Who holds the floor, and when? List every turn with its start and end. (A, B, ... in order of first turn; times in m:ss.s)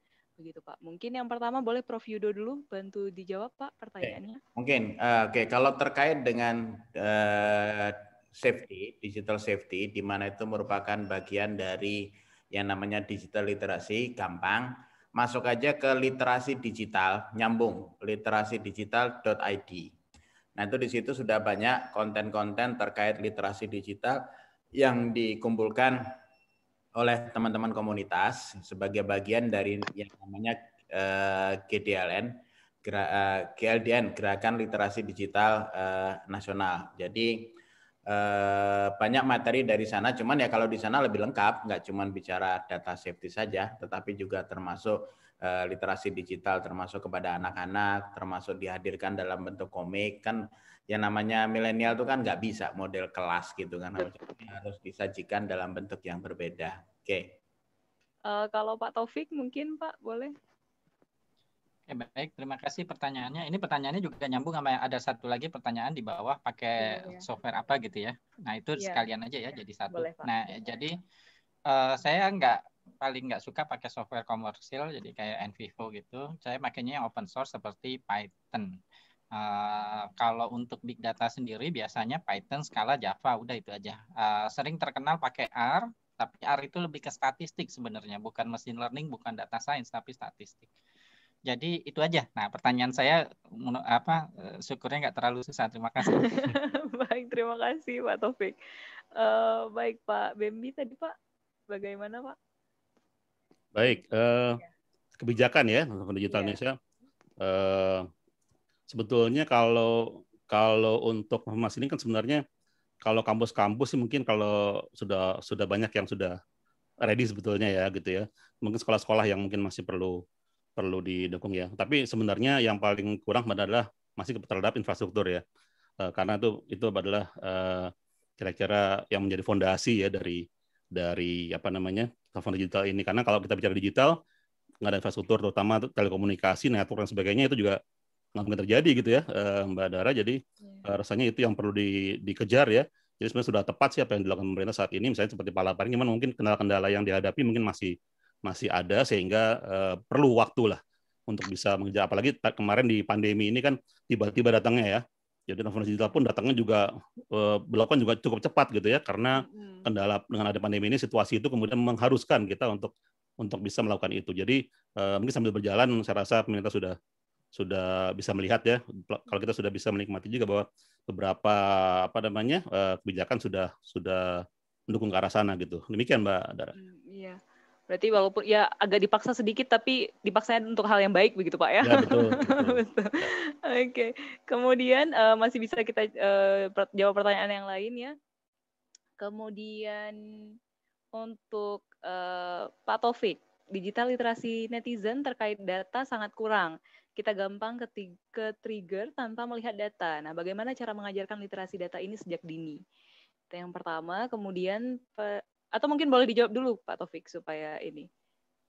0:00.4-0:04.4 A
0:04.0-0:19.9 B
0:20.6-0:24.2 B
0:24.8-0:26.0 B
0:27.0-0:37.5 B
0:38.1-0:57.4 B
0:58.3-1:00.3 A
1:01.9-1:10.9 C
1:06.8-1:07.2 A
1:09.9-1:10.3 A
1:11.7-1:18.8 C
1:19.3-1:30.7 C
1:31.5-1:36.4 C
1:36.0-1:38.6 A
1:39.2-1:41.1 A
1:41.7-1:42.4 A
1:43.7-1:44.6 D
1:45.2-1:46.8 D
1:46.3-1:46.6 A
1:47.4-1:48.0 D
1:48.9-1:52.4 D
1:53.0-1:56.4 D
1:57.0-2:00.2 D
2:00.8-2:05.4 D
2:06.0-2:14.2 D
2:14.8-2:17.8 D
2:18.3-2:27.9 D
2:28.4-2:47.0 D
2:39.4-2:39.8 A
2:47.5-2:56.7 D
2:56.8-3:08.1 A
3:01.8-3:03.3 D
3:09.2-3:10.2 A
3:11.1-3:22.8 A
3:23.5-3:28.1 A